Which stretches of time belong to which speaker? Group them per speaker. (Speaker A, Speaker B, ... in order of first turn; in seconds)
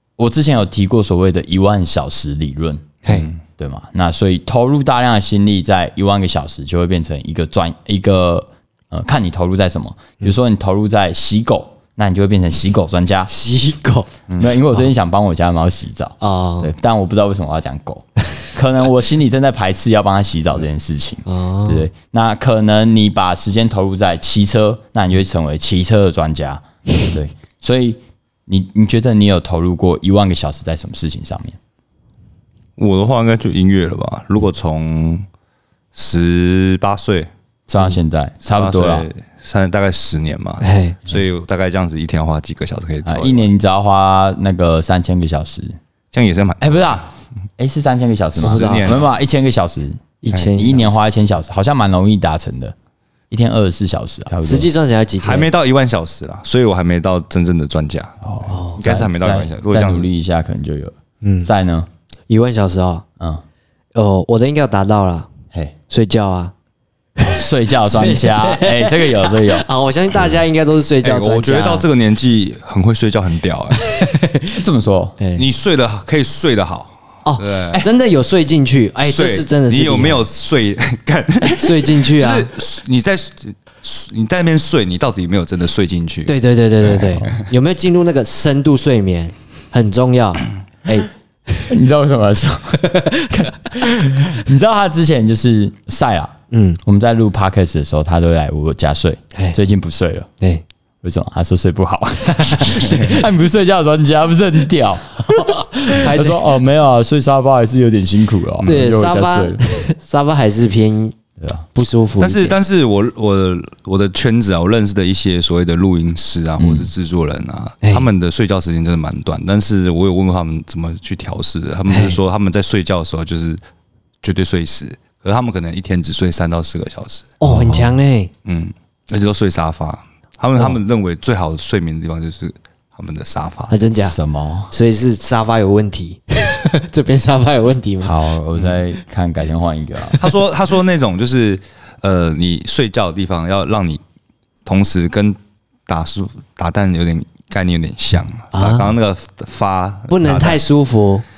Speaker A: 0.2-13.3, 14.4-31.6, 37.7-39.1, 43.0-45.8, 46.6-52.7, 53.3-54.7, 58.2-61.9, 67.2-69.7, 74.5-75.2, 87.0-87.3, 91.7-100.3, 101.0-109.6, 111.4-111.7, 116.6-116.9, 127.4-128.0, 133.9-134.7, 138.0-140.2
Speaker B: 3.0-3.3, 13.3-14.1, 16.2-16.7, 21.3-21.9, 40.6-41.0, 48.4-49.0, 50.2-51.1, 54.4-55.5, 58.5-58.8, 61.2-61.5, 62.3-63.0, 63.9-65.3, 65.9-66.5, 67.2-71.9, 73.7-74.5, 75.2-75.5, 77.2-80.2, 81.5-82.5, 86.2-91.1, 92.8-93.4, 96.5-96.8, 102.4-103.2, 105.2-106.6, 108.6-111.2, 111.7-112.6, 117.8-118.1, 121.9-122.2, 127.4-128.3, 133.7-134.2, 134.7-138.2, 140.0-140.3, 148.5-148.9, 150.1-151.2
Speaker C: 32.8-35.2, 35.9-37.3, 38.6-43.4, 46.1-46.6, 48.4-48.9, 55.2-58.1, 58.8-60.0, 71.0-73.7, 75.4-76.9, 77.4-77.8, 79.1-86.3, 112.2-123.6, 124.2-127.3, 128.4-133.7, 140.2-144.0, 144.7-145.3, 145.9-150.6